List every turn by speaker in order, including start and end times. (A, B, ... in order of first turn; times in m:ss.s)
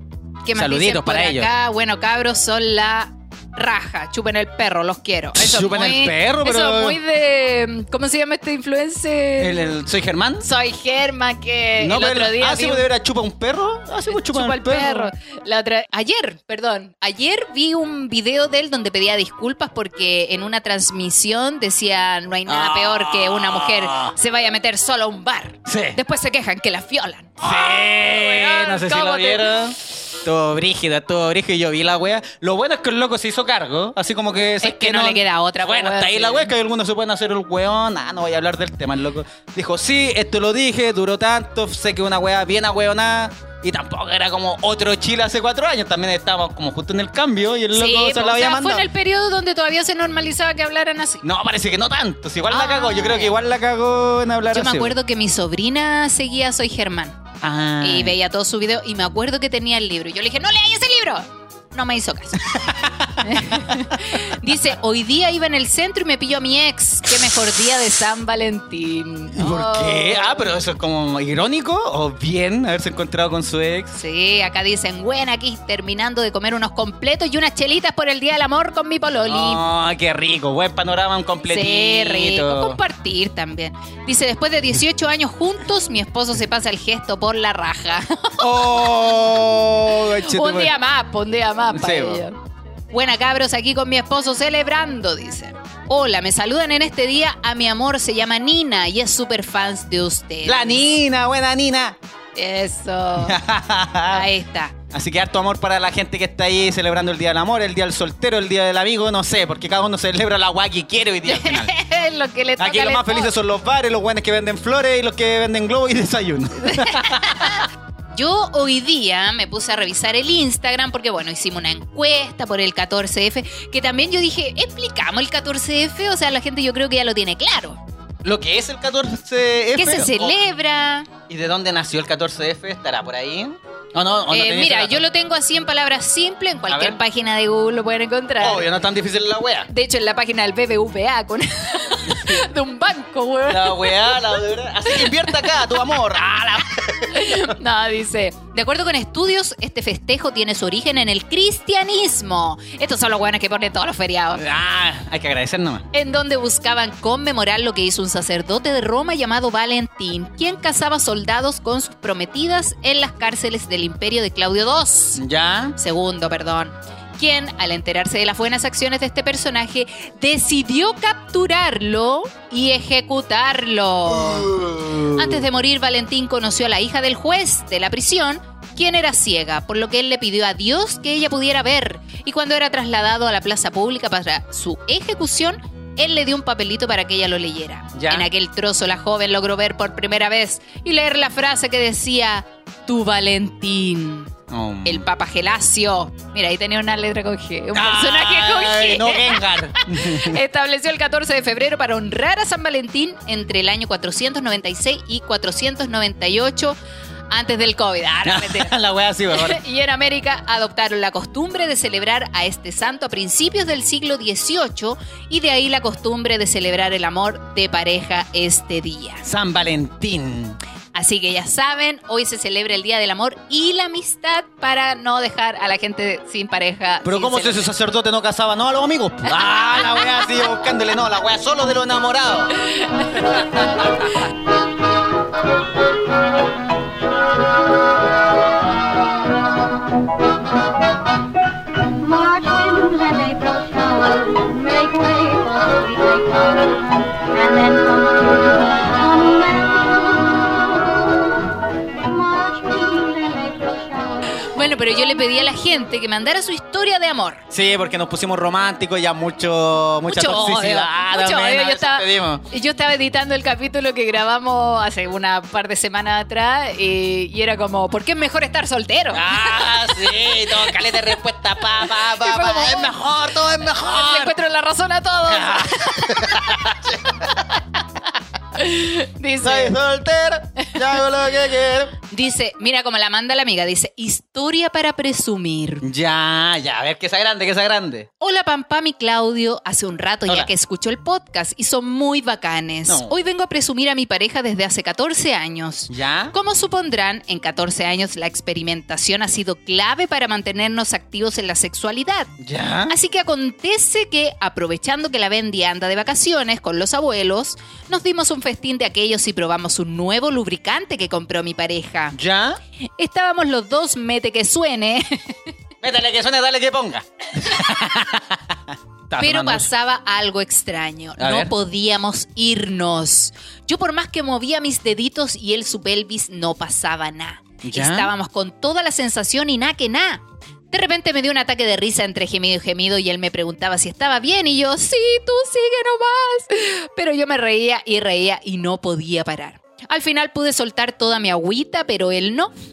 0:00.4-0:09.6 A
0:00.5-0:01.5 B
0:05.4-0:07.0 B
0:09.4-0:10.5 B
0:10.4-0:12.9 A
0:11.8-0:15.1 B
0:14.1-0:29.6 A
0:22.4-0:24.1 B
0:25.6-0:26.0 B
0:27.4-0:48.8 B
0:34.6-0:36.5 A
0:47.7-0:51.2 A
0:51.2-0:54.9 B
0:52.5-0:53.4 A
0:54.5-0:57.2 A
0:57.4-0:58.2 B
0:57.8-1:02.6 A
1:02.4-1:03.8 B
1:03.2-1:10.5 A
1:09.3-1:14.0 B
1:13.9-1:19.6 A
1:19.2-1:22.8 B
1:21.5-1:28.7 A
1:28.4-1:30.8 B
1:30.0-1:32.4 A
1:31.7-1:32.2 B
1:32.9-1:40.8 A
1:40.4-1:42.0 B
1:42.3-1:43.4 A
1:43.2-1:44.3 B
1:44.1-1:44.8 A
1:44.9-1:51.7 B
1:51.2-1:53.3 A
1:52.6-1:57.6 B
1:56.6-2:07.8 A
2:08.2-2:10.3 B
2:09.7-2:11.1 A
2:11.3-2:15.0 B
2:14.3-2:18.8 A
2:16.7-2:17.0 B
2:18.4-2:19.7 B
2:19.7-2:25.9 A
2:22.1-2:22.4 B
2:23.5-2:27.6 B
2:27.1-2:34.4 A
2:34.3-2:35.8 B
2:35.9-2:45.2 A
2:45.2-2:45.8 B
2:45.8-3:14.3 A
2:54.1-2:55.4 B
3:07.9-3:08.3 B
3:14.5-3:15.0 B
3:14.8-3:26.8 A
3:17.7-3:20.4 B
3:27.3-3:28.7 A
3:28.2-3:29.6 B
3:29.3-3:39.2 A
3:39.2-3:40.6 B
3:40.9-3:47.7 A
3:47.0-3:52.5 B
3:52.9-3:53.4 A
3:53.3-3:54.1 B
4:01.8-4:11.2 C
4:11.9-4:14.4 C
4:14.3-4:17.4 A
4:17.5-4:22.4 B
4:20.1-4:31.0 A
4:29.1-4:34.4 B
4:31.6-4:33.0 A
4:33.6-4:36.7 A
4:35.3-4:37.6 B
4:38.5-4:39.8 A
4:39.4-4:42.0 B
4:42.1-4:45.8 A
4:45.8-4:48.1 B
4:48.2-5:02.3 A
4:52.9-4:53.1 B
4:55.9-4:56.3 B
5:02.4-5:02.9 B
5:02.9-5:12.2 A
5:12.1-5:12.6 B
5:13.0-5:15.4 A
5:15.8-5:19.7 B
5:19.2-5:42.5 A
5:21.2-5:21.5 B
5:27.6-5:28.1 B